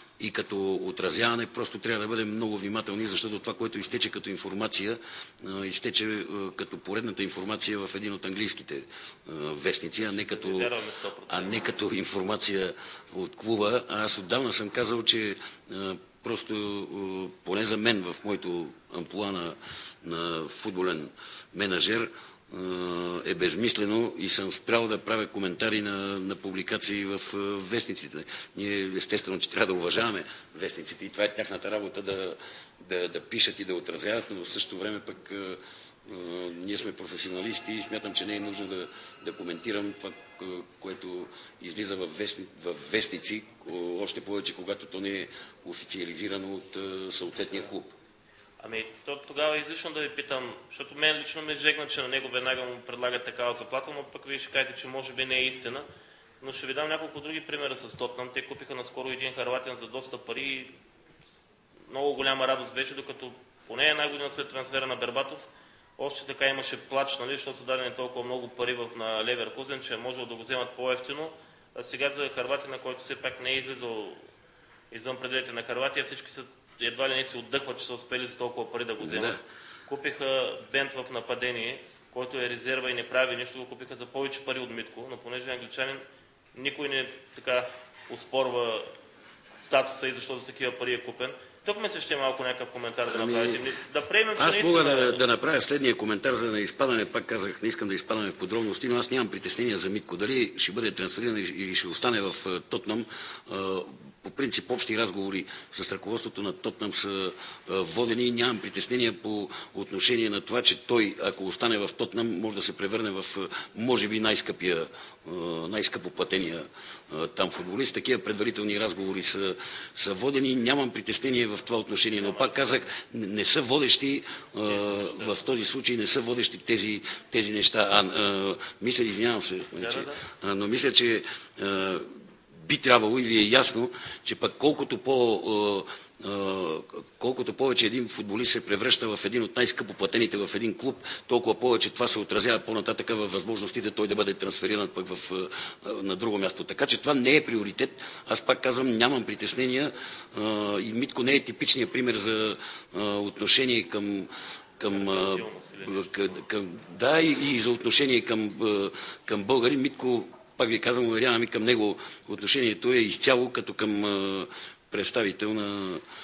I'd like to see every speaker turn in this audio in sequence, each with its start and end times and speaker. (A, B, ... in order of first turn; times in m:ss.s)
0:00.2-0:10.7 A
0:10.1-0:11.6 B
0:11.3-0:47.9 A
0:48.6-0:55.8 B
0:56.4-1:00.7 B
1:01.9-1:05.4 B
1:06.0-1:14.2 B
1:14.9-1:26.0 B
1:19.0-1:19.4 A
1:26.5-1:28.9 B
1:29.6-1:35.2 B
1:33.1-1:33.6 A
1:34.4-2:46.0 A
2:02.2-2:02.8 B
2:04.6-2:05.4 B
2:09.8-2:10.2 B
2:34.9-2:36.4 B